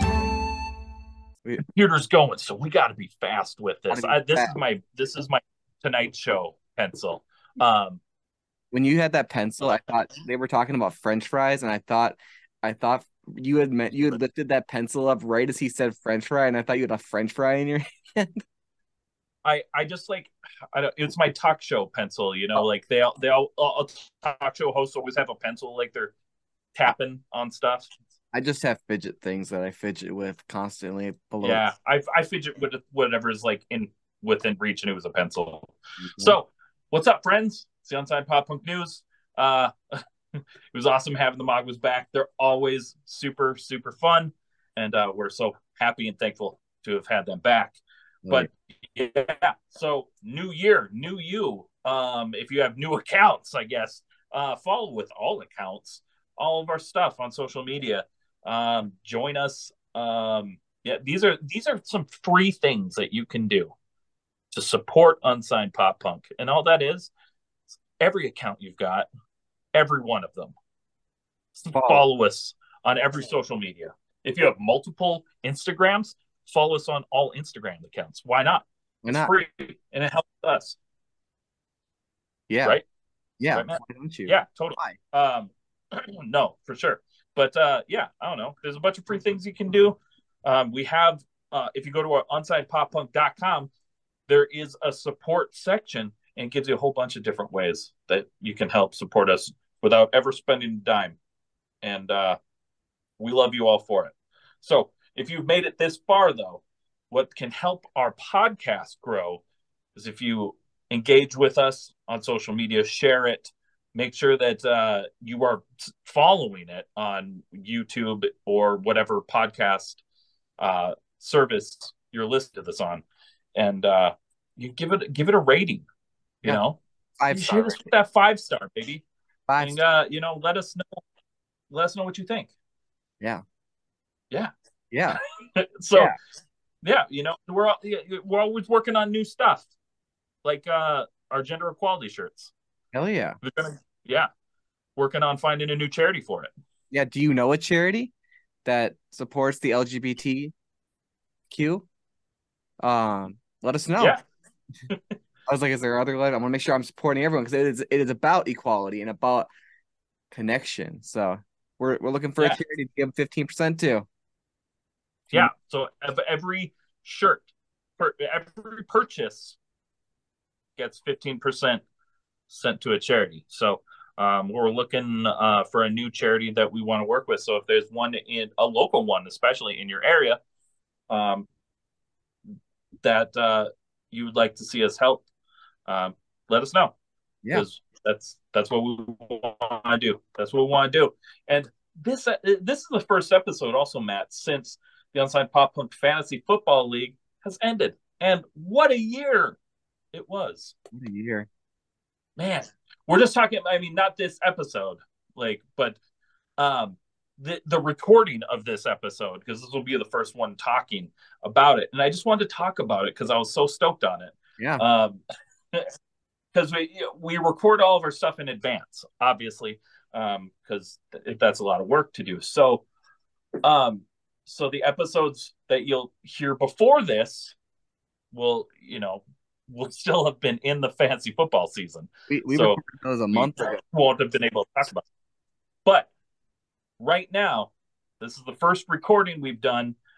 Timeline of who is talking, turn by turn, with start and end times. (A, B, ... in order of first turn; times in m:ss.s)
0:01.7-0:08.0 A
0:03.9-0:04.6 B
0:08.7-0:18.4 B
0:19.4-0:26.1 A
0:26.8-0:27.9 A
0:28.3-0:31.7 B
0:31.4-0:39.7 A
0:36.0-0:36.4 B
0:40.7-1:03.7 A
1:04.5-1:07.1 A
1:08.0-1:09.1 A
1:09.8-1:10.5 A
1:11.6-1:20.8 A
1:11.7-1:12.1 B
1:19.0-1:19.3 B
1:22.5-1:22.8 B
1:23.4-1:25.0 B
1:23.5-1:33.7 A
1:34.3-1:41.2 A
1:41.8-1:42.4 A
1:43.2-1:49.4 A
1:50.0-2:00.0 A
2:00.6-2:03.0 A
2:03.6-2:05.9 A
2:06.4-2:09.0 A
2:07.2-2:07.8 B
2:09.5-2:09.8 B
2:09.6-2:11.0 A
2:11.7-2:12.5 A
2:14.9-2:15.2 B
2:15.2-2:16.1 A
2:16.8-2:19.7 A
2:20.4-2:22.5 A
2:22.9-2:23.4 B
2:23.4-2:24.3 A
2:25.0-2:26.5 A
2:26.9-2:28.1 B
2:28.6-2:30.5 B
2:31.5-2:31.9 B
2:32.8-2:34.2 B
2:35.5-2:39.5 B
2:40.3-2:44.1 B
2:45.3-2:49.6 A
2:50.8-2:51.8 A
2:52.5-3:00.4 A
3:01.1-3:01.5 A
3:03.0-3:05.2 A
3:05.9-3:06.9 A
3:07.5-3:19.6 A
3:20.1-3:20.7 A
3:20.9-3:21.5 B
3:22.4-3:26.0 A
3:26.6-3:35.2 A
3:34.6-3:34.8 B
3:36.5-3:42.8 A
3:43.6-3:47.6 A
3:48.3-3:52.8 A
3:52.3-3:53.8 B
3:53.3-3:55.0 A
3:57.0-4:00.0 A